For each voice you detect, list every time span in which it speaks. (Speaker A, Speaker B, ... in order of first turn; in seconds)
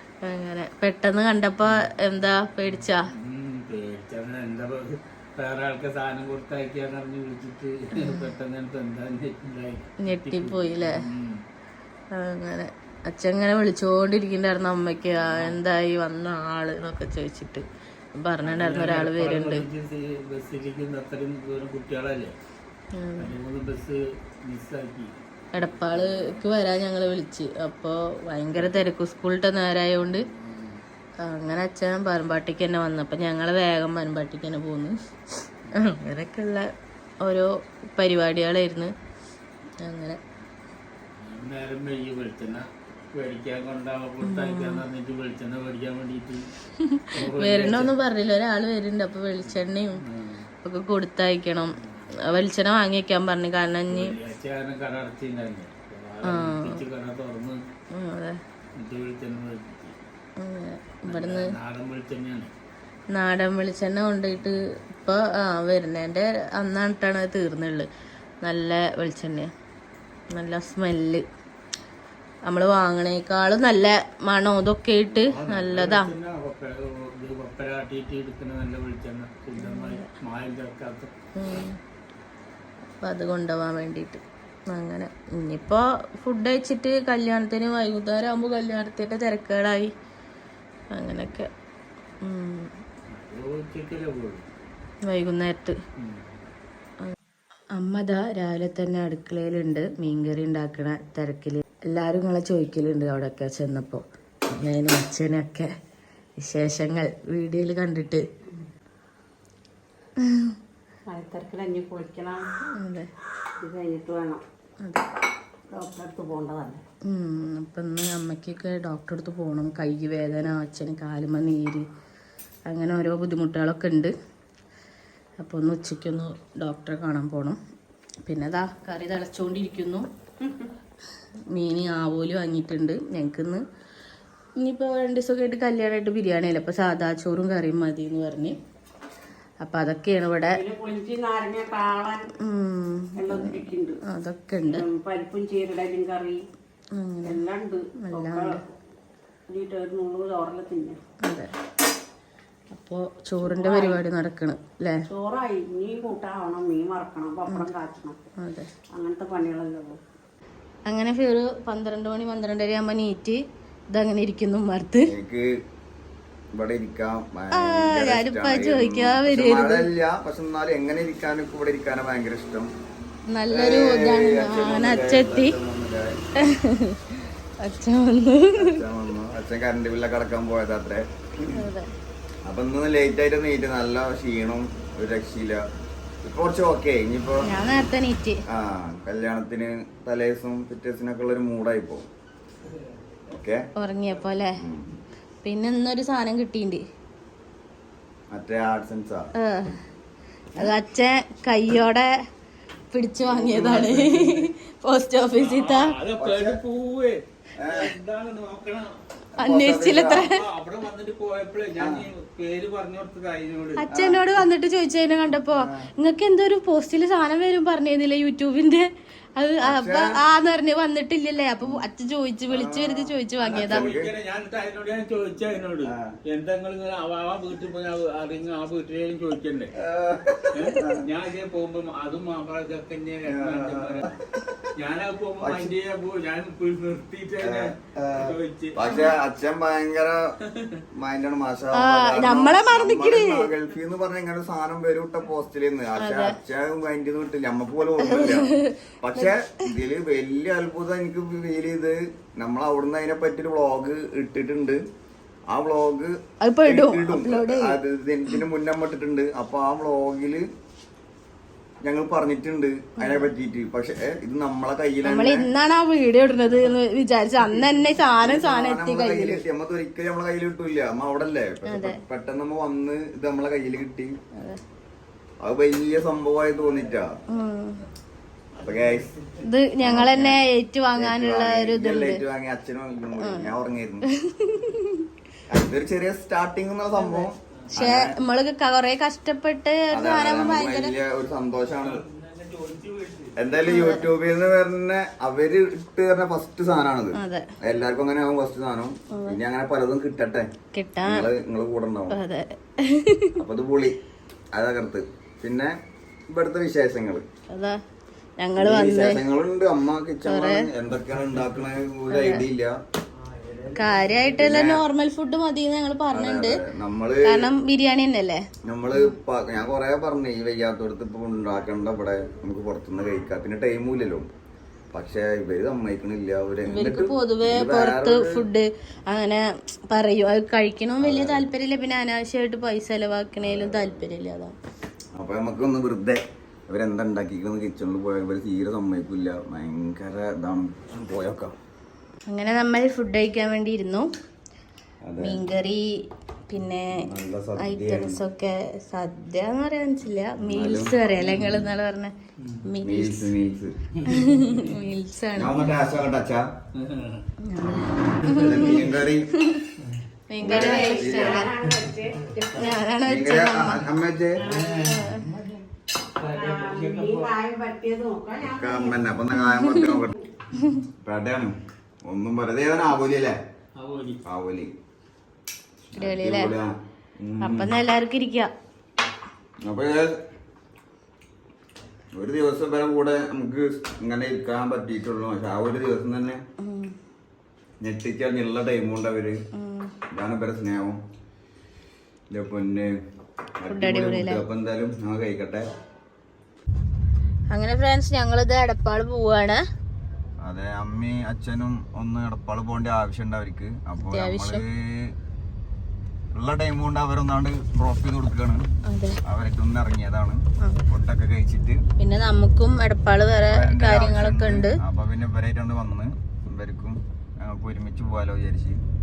Speaker A: 0.2-3.1, 8.0-8.3, 10.0-11.0, 12.1-19.6, 22.9-23.3, 25.5-30.2, 31.2-35.0, 35.7-36.6, 37.2-38.9, 39.8-40.2, 44.2-44.9, 46.8-50.0, 50.6-54.1, 56.2-56.8, 57.9-58.4, 60.4-61.5, 63.1-67.9, 68.4-69.5, 70.3-71.2, 72.5-76.1, 79.6-80.1, 81.4-81.8, 83.0-89.9, 90.9-91.5, 92.2-92.7, 95.0-95.8, 97.8-105.7, 106.4-108.2, 112.8-113.1, 117.1-121.8, 122.7-124.1, 125.4-127.6, 128.2-130.1, 131.5-133.6, 134.6-138.6, 139.6-140.6, 142.4-144.9, 147.0-147.4, 148.0-148.6, 151.3-151.5, 152.7-155.0, 158.4-158.7, 160.9-165.1, 167.5-169.9, 173.3-175.6, 176.4-178.8, 181.5-181.9, 187.4-188.4, 193.8-194.6, 195.4-196.8, 199.4-199.8, 200.6-202.1, 202.9-205.9, 209.4-210.4, 213.8-223.9, 238.9-239.2, 241.7-243.5, 246.0-246.4, 248.0-249.3, 256.4-257.8, 263.0-263.3, 265.0-269.4, 271.7-272.0, 274.4-274.6, 277.3-277.8, 279.4-282.2, 283.2-285.1, 287.8-290.9, 293.7-294.1, 297.1-297.5, 299.1-299.4, 300.7-301.3, 302.1-303.4, 307.5-307.8, 308.4-309.2, 310.3-310.7, 312.1-312.4, 313.8-316.6, 317.2-318.4, 326.7-334.6, 342.3-344.1, 345.2-345.9, 346.5-347.0, 347.6-352.1, 352.6-353.3, 354.1-355.6, 357.5-359.7, 360.3-361.5, 362.5-363.8, 364.9-365.3, 369.4-370.0, 376.0-376.5, 377.4-378.5, 386.6-386.9, 389.6-389.9, 393.7-394.4, 397.5-399.6, 404.0-404.6, 408.9-409.2, 412.0-414.8
Speaker B: 3.2-11.4, 15.2-15.6, 18.4-22.4, 23.2-26.4, 28.5-28.9, 30.0-30.8, 41.2-46.5, 47.1-48.0, 49.5-50.5, 53.9-57.6, 58.8-60.0, 61.1-62.5, 75.1-81.1, 93.1-94.5, 203.5-204.5, 205.4-208.9, 210.4-213.8, 223.4-229.8, 230.5-234.2, 234.8-238.8, 240.6-240.8, 278.5-279.4, 291.8-293.4, 313.3-314.5, 351.2-351.6, 354.0-354.7, 356.8-357.2, 358.5-358.9, 361.7-362.0, 364.4-365.6, 366.2-367.3, 373.8-374.2
Speaker C: 111.1-112.5, 113.6-114.4, 115.7-116.8, 130.4-130.7, 140.5-142.3, 143.2-144.0, 144.6-146.4, 147.2-148.6, 149.5-151.0, 153.4-154.0, 155.1-158.2, 158.9-160.0, 360.4-362.7, 364.4-364.9, 366.3-369.0
Speaker D: 165.1-165.6, 166.5-172.7, 173.5-176.2, 178.6-181.6, 182.4-185.6, 186.2-187.5, 188.5-192.1, 193.3-193.7, 194.6-194.9, 198.3-199.3, 203.3-203.9, 206.2-206.6, 207.6-207.9, 209.4-210.3, 211.8-212.1, 213.9-214.4, 215.5-215.9, 219.6-220.2, 222.5-224.1, 225.8-226.2, 229.8-231.0, 233.3-234.1, 235.4-235.7, 237.4-240.3, 240.9-248.5, 249.0-254.8, 255.5-256.1, 256.6-260.5, 261.8-265.5, 268.2-274.1, 275.4-277.2, 278.6-279.1, 279.8-280.4, 280.9-284.1, 285.5-288.1, 289.9-292.0, 293.4-300.5, 301.0-302.2, 303.4-304.0, 304.5-305.8, 306.3-307.2, 308.6-312.8, 314.4-314.8, 316.1-317.5, 318.6-324.3, 324.9-328.4, 331.0-331.5, 333.4-334.1, 335.2-341.5, 345.0-345.4, 346.9-348.2, 350.4-351.0, 352.8-353.7, 355.4-356.5, 358.3-359.3, 360.4-361.5, 363.1-364.4, 368.4-370.1, 371.0-371.5, 372.1-373.4, 374.2-374.7, 375.9-377.7, 379.6-380.1, 382.1-386.4, 387.8-389.4, 390.1-391.0, 392.3-392.9, 393.6-395.7, 400.4-405.1, 406.3-408.7, 409.3-411.8, 413.5-418.8